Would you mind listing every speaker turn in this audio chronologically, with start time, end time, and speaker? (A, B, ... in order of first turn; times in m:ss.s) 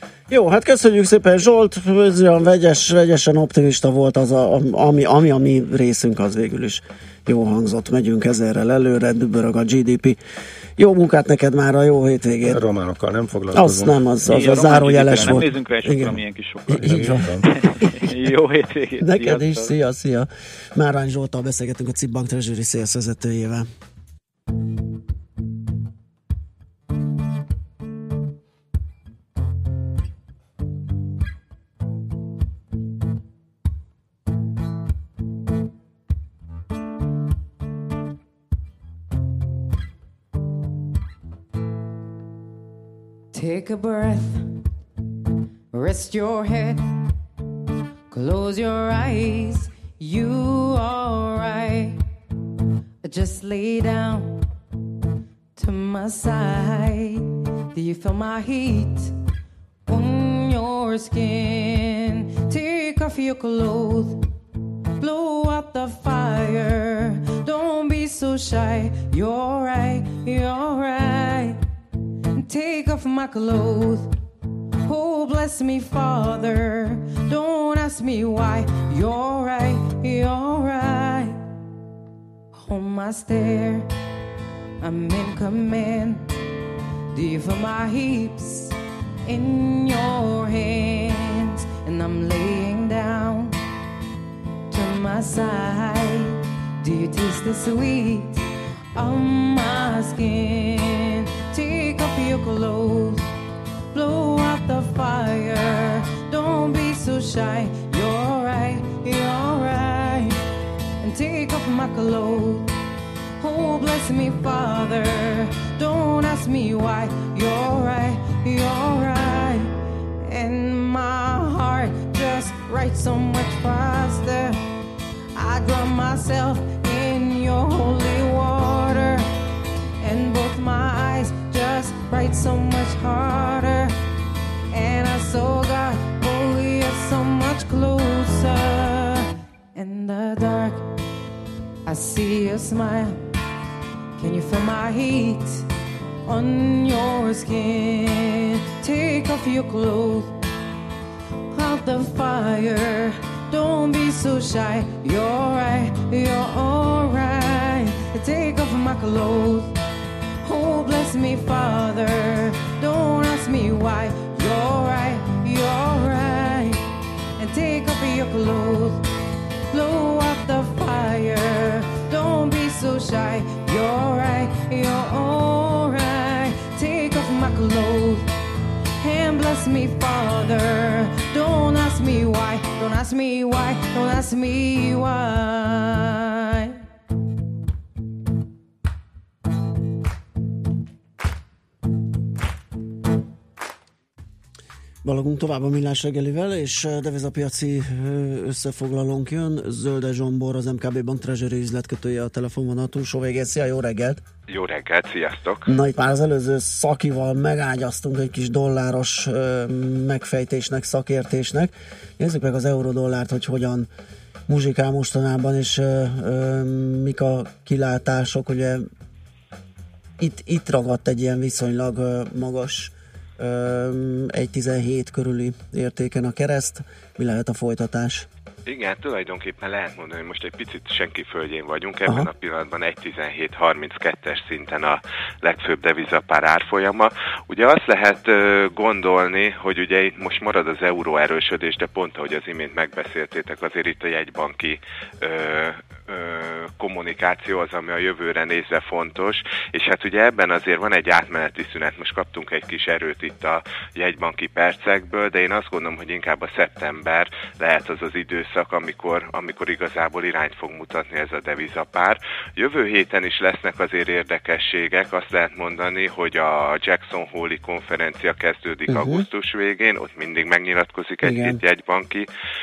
0:00.3-0:10.2 A
0:10.8-0:12.6 A
0:12.5-0:14.6 B
0:13.5-0:17.3 A
0:14.2-0:19.7 C
0:15.1-0:15.4 B
0:16.8-0:17.5 B
0:19.0-0:23.7 A
0:43.3-0:44.5 D
0:45.7-0:46.8 D
0:48.1-0:52.0 D
0:53.0-0:54.4 D
0:55.6-0:59.1 D
0:59.9-1:04.2 D
1:05.0-1:11.6 D
1:12.4-1:14.1 D
1:14.8-1:21.4 D
1:22.6-1:23.9 D
1:24.8-1:26.3 D
1:27.1-1:33.6 D
1:34.7-1:38.4 D
1:38.9-1:43.3 D
1:43.9-1:50.4 D
1:51.0-1:52.7 D
1:53.4-2:04.6 D
2:05.3-2:09.3 D
2:10.0-2:13.9 D
2:14.7-2:20.8 D
2:21.8-2:23.2 D
2:24.2-2:25.7 D
2:26.2-2:30.4 D
2:31.5-2:39.7 D
2:40.4-2:46.8 D
2:47.4-2:49.0 D
2:49.7-2:58.3 D
2:59.0-3:06.8 D
3:15.0-3:24.2 A
3:24.5-3:25.7 E
3:25.6-3:33.9 A
3:34.5-3:38.8 A
3:40.2-3:48.3 A
3:48.7-4:32.3 E
4:28.9-4:29.2 A
4:31.2-4:31.6 A